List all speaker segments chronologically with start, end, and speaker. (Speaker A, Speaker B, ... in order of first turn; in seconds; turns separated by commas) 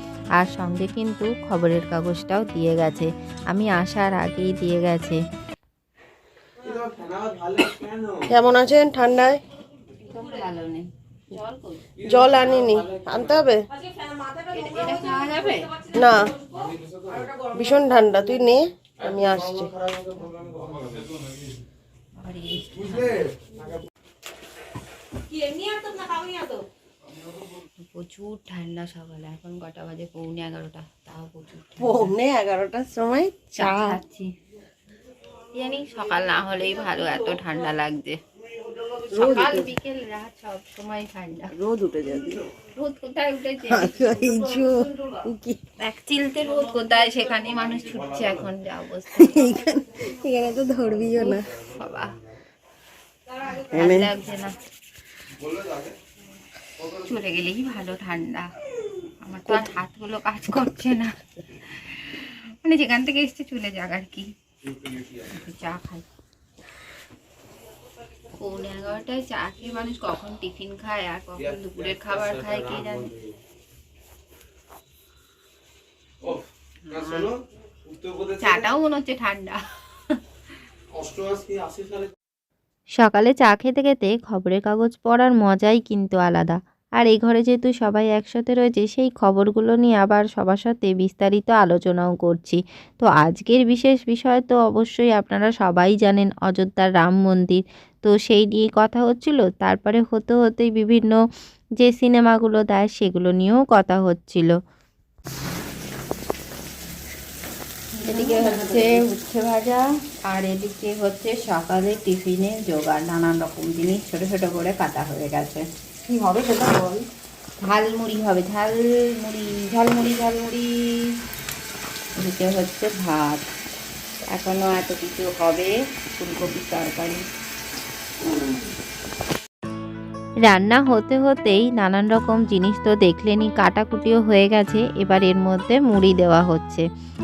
Speaker A: 0.4-5.2, Speaker B: 8.3-9.4, Speaker A: 10.1-11.9, Speaker B: 12.0-13.6, Speaker A: 14.5-15.9, Speaker B: 15.9-16.3, Speaker B: 17.5-19.7, Speaker A: 22.2-23.2, Speaker A: 27.8-32.1, Speaker B: 31.8-34.0, Speaker A: 33.5-34.3, Speaker A: 35.5-38.2, Speaker A: 39.1-41.5, Speaker B: 39.1-39.7, Speaker B: 41.5-42.4, Speaker A: 42.8-44.3, Speaker B: 43.7-45.6, Speaker A: 45.8-49.7, Speaker B: 49.2-51.4, Speaker A: 51.2-52.1, Speaker A: 53.4-54.5, Speaker B: 53.7-54.1, Speaker A: 56.9-58.5, Speaker A: 59.2-61.1, Speaker A: 61.7-64.3, Speaker A: 65.2-66.0, Speaker A: 68.4-73.1, Speaker A: 76.8-77.3, Speaker A: 78.4-79.6, Speaker A: 83.0-101.2, Speaker A: 101.8-104.5, Speaker A: 107.9-115.6, Speaker B: 108.3-108.9, Speaker B: 116.1-117.0, Speaker A: 117.6-121.0, Speaker A: 122.2-123.4, Speaker A: 124.3-127.2, Speaker A: 130.5-136.8